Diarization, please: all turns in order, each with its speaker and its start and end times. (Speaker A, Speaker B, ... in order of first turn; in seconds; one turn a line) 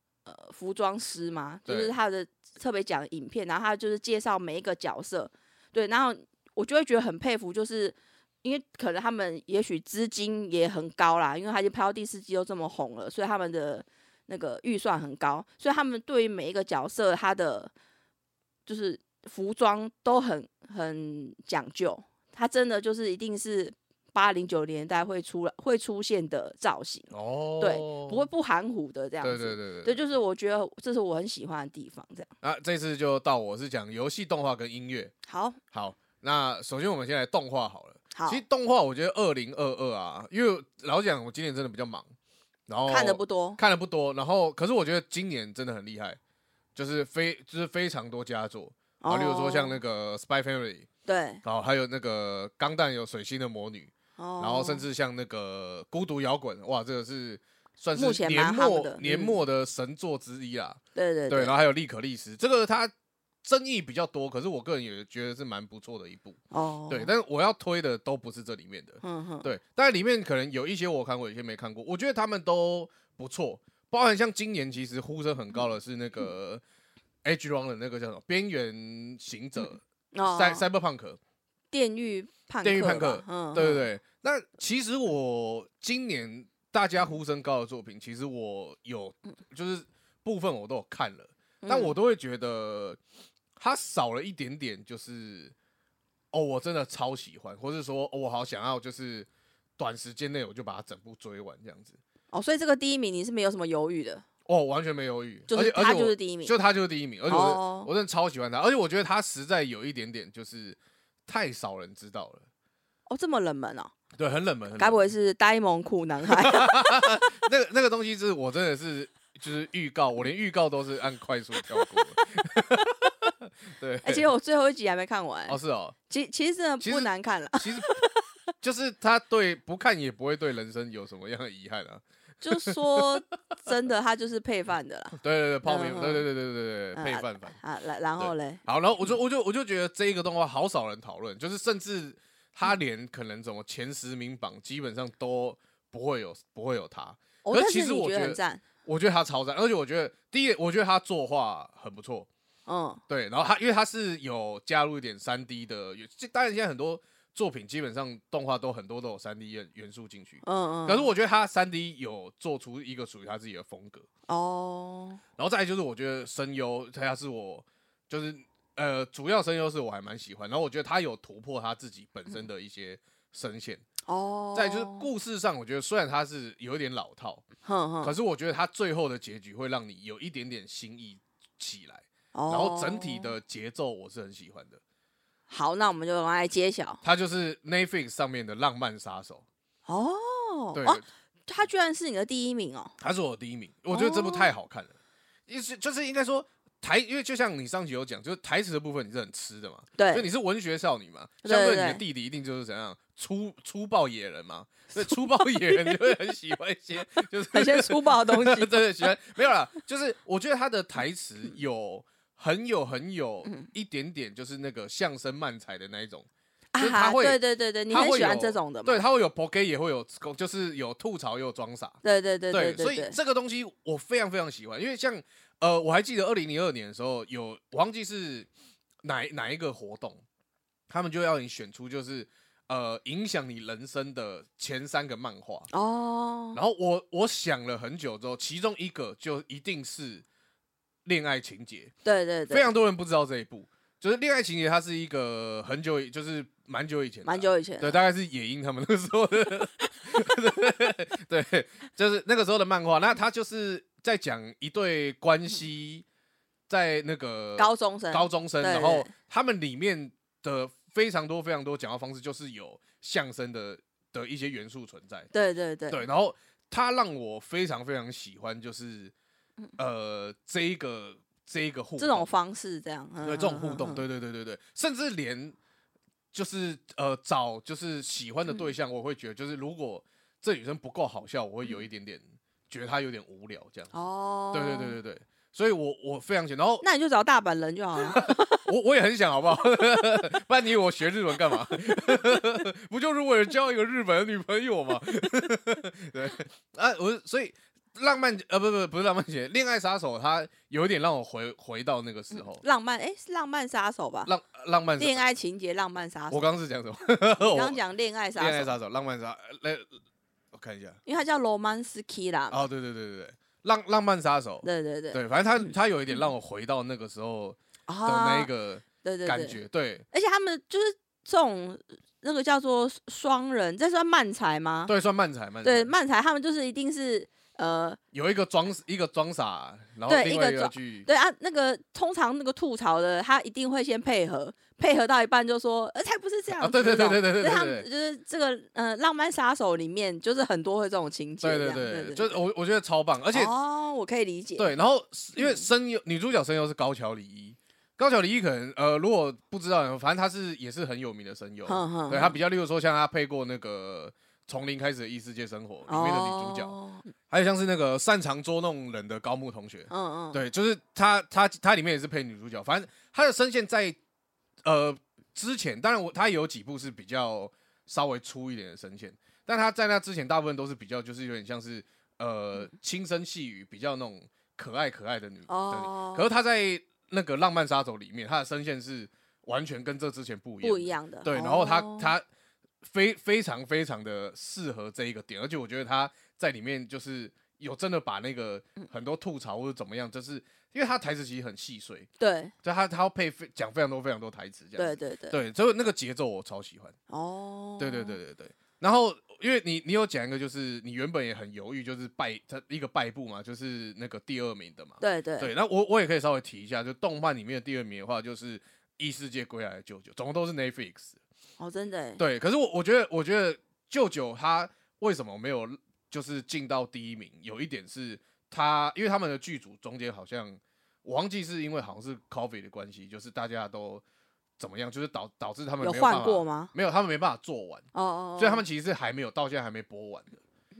Speaker A: 0.2-17.7
Speaker B: 1.7-1.9
Speaker A: 18.7-32.3
Speaker B: 27.1-28.2
Speaker B: 29.2-30.0
Speaker B: 32.4-35.1
Speaker A: 35.3-35.6
Speaker B: 35.7-42.1
Speaker A: 38.1-38.4
Speaker B: 42.7-46.2
Speaker A: 42.9-43.6
Speaker B: 46.8-50.9
Speaker A: 49.0-49.8
Speaker A: 51.1-51.4
Speaker B: 51.4-62.9
Speaker A: 54.2-54.8
Speaker A: 58.0-59.4
Speaker A: 61.0-61.5
Speaker B: 63.4-76.6
Speaker A: 66.5-67.1
Speaker A: 69.0-69.5
Speaker B: 77.2-81.2
Speaker A: 80.1-80.7
Speaker A: 81.7-83.9
Speaker B: 82.6-93.0
Speaker A: 91.6-91.9
Speaker B: 93.6-95.5
Speaker B: 96.3-102.0
Speaker A: 102.3-104.2
Speaker B: 104.5-112.5
Speaker A: 105.5-106.5
Speaker A: 107.3-107.9
Speaker A: 113.1-113.9
Speaker B: 114.2-115.0
Speaker A: 114.8-117.3
Speaker B: 116.3-124.3
Speaker A: 124.0-125.6
Speaker B: 125.5-126.0
Speaker A: 126.1-128.2
Speaker B: 126.8-128.0
Speaker B: 128.6-133.0
Speaker A: 132.4-136.2
Speaker B: 135.2-137.6
Speaker A: 136.9-138.6
Speaker B: 138.2-152.3
Speaker A: 147.4-148.6
Speaker A: 152.7-153.0
Speaker B: 153.1-164.1
Speaker A: 160.4-161.1
Speaker A: 164.3-165.2
Speaker B: 165.4-173.8
Speaker A: 174.1-175.1
Speaker B: 174.6-177.4
Speaker A: 177.6-178.1
Speaker B: 178.0-184.8
Speaker A: 182.3-183.3
Speaker A: 185.5-187.0
Speaker B: 187.0-189.4
Speaker A: 189.9-192.9
Speaker B: 190.7-191.0
Speaker B: 193.0-194.9
Speaker A: 193.9-194.5
Speaker B: 195.5-216.3
Speaker A: 200.0-200.3
Speaker A: 201.4-202.0
Speaker A: 207.5-208.9
Speaker A: 216.7-219.0
Speaker B: 216.8-222.0
Speaker A: 222.0-223.2
Speaker B: 222.5-228.5
Speaker B: 229.0-230.2
Speaker B: 230.9-235.7
Speaker A: 235.7-236.6
Speaker B: 236.5-240.2
Speaker B: 241.1-241.9
Speaker A: 242.0-242.7
Speaker B: 242.5-256.1
Speaker A: 247.2-248.0
Speaker B: 256.7-265.3
Speaker A: 257.6-259.1
Speaker A: 265.3-266.0
Speaker B: 265.9-269.1
Speaker B: 269.8-272.3
Speaker A: 272.0-274.0
Speaker B: 273.2-275.6
Speaker B: 276.3-283.9
Speaker A: 283.9-285.0
Speaker B: 284.5-286.9
Speaker A: 286.8-288.6
Speaker B: 288.1-302.6
Speaker A: 302.4-304.3
Speaker B: 304.3-305.2
Speaker A: 305.0-306.4
Speaker B: 306.3-307.8
Speaker A: 307.4-308.7
Speaker B: 308.4-309.9
Speaker B: 310.5-311.0
Speaker A: 311.1-312.6
Speaker B: 312.5-320.1
Speaker A: 314.6-315.7
Speaker A: 317.9-318.5
Speaker A: 319.0-319.6
Speaker A: 320.1-324.9
Speaker B: 324.9-325.9
Speaker A: 325.6-328.0
Speaker B: 328.1-331.1
Speaker A: 330.1-342.4
Speaker B: 336.6-337.9
Speaker B: 341.4-343.5
Speaker A: 343.3-344.7
Speaker B: 344.6-356.7
Speaker A: 351.7-352.4
Speaker A: 355.9-357.1
Speaker B: 357.3-364.0
Speaker A: 359.9-360.4
Speaker B: 364.6-382.2
Speaker A: 375.5-376.3
Speaker A: 380.6-382.1
Speaker B: 382.8-392.1
Speaker A: 392.2-392.5
Speaker B: 392.6-396.9
Speaker A: 394.8-395.4
Speaker A: 397.1-398.2
Speaker B: 397.8-411.2
Speaker A: 405.0-405.5
Speaker A: 411.6-412.2
Speaker B: 412.2-424.0
Speaker B: 424.6-427.9
Speaker A: 425.8-426.7
Speaker A: 427.9-428.7
Speaker B: 428.4-430.4